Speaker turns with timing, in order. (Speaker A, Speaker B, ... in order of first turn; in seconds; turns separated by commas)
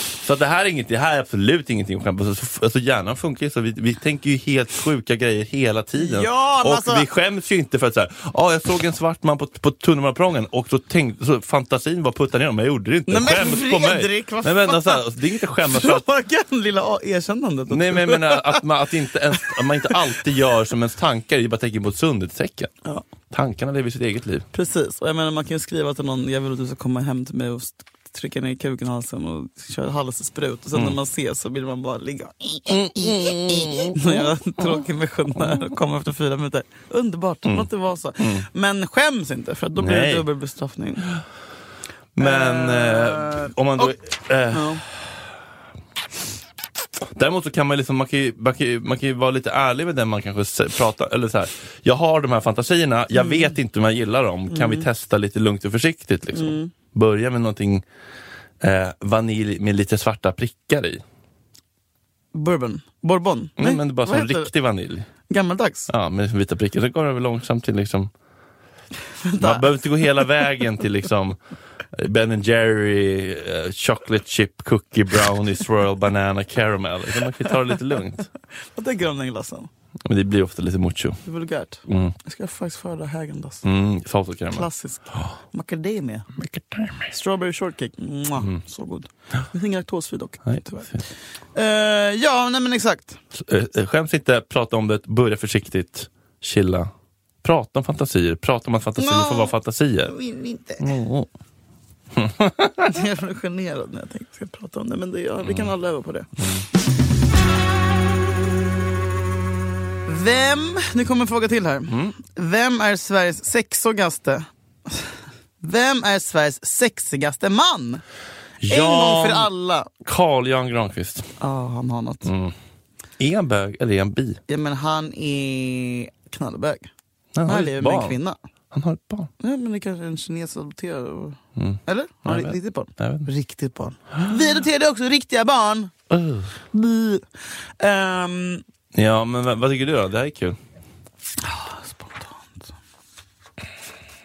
Speaker A: 0.2-16.1, Speaker B: 6.0-7.1, Speaker B: 13.1-15.1, Speaker B: 15.6-18.6, Speaker A: 17.7-22.7, Speaker A: 23.3-24.5, Speaker B: 24.5-41.1, Speaker A: 32.7-34.8, Speaker A: 35.4-35.6, Speaker A: 37.5-38.5, Speaker A: 39.8-40.3, Speaker A: 42.1-45.3, Speaker B: 42.2-43.9, Speaker B: 44.5-44.8, Speaker A: 47.1-57.8, Speaker B: 53.1-53.5, Speaker B: 54.5-54.9, Speaker B: 56.3-56.7, Speaker A: 58.6-61.0, Speaker B: 62.3-64.5, Speaker A: 63.6-65.1, Speaker B: 65.3-65.9, Speaker A: 65.9-68.1, Speaker B: 69.2-69.7, Speaker A: 69.4-71.4, Speaker A: 71.9-78.3, Speaker B: 78.8-79.7, Speaker A: 80.0-81.2, Speaker B: 81.2-83.6, Speaker A: 81.9-82.2, Speaker A: 83.6-84.7, Speaker B: 84.5-86.3, Speaker A: 86.4-87.1, Speaker B: 87.1-93.2, Speaker A: 90.5-91.0, Speaker A: 93.3-96.9, Speaker A: 97.4-100.1, Speaker B: 99.0-100.9, Speaker A: 100.8-101.3, Speaker A: 102.2-103.0, Speaker B: 102.8-106.3, Speaker A: 105.4-105.7, Speaker A: 106.4-106.7, Speaker B: 110.1-118.0, Speaker A: 111.9-112.2, Speaker A: 118.6-119.5, Speaker B: 118.7-119.9, Speaker A: 120.0-121.3, Speaker B: 121.4-122.3, Speaker A: 122.2-122.5, Speaker A: 123.2-124.4, Speaker B: 124.5-126.9, Speaker A: 127.3-128.2, Speaker B: 127.5-128.4, Speaker A: 128.7-129.3, Speaker B: 129.4-135.9, Speaker A: 131.6-133.3, Speaker A: 136.1-136.5, Speaker B: 136.7-137.3, Speaker B: 137.8-138.6, Speaker A: 138.9-140.6, Speaker B: 141.4-142.7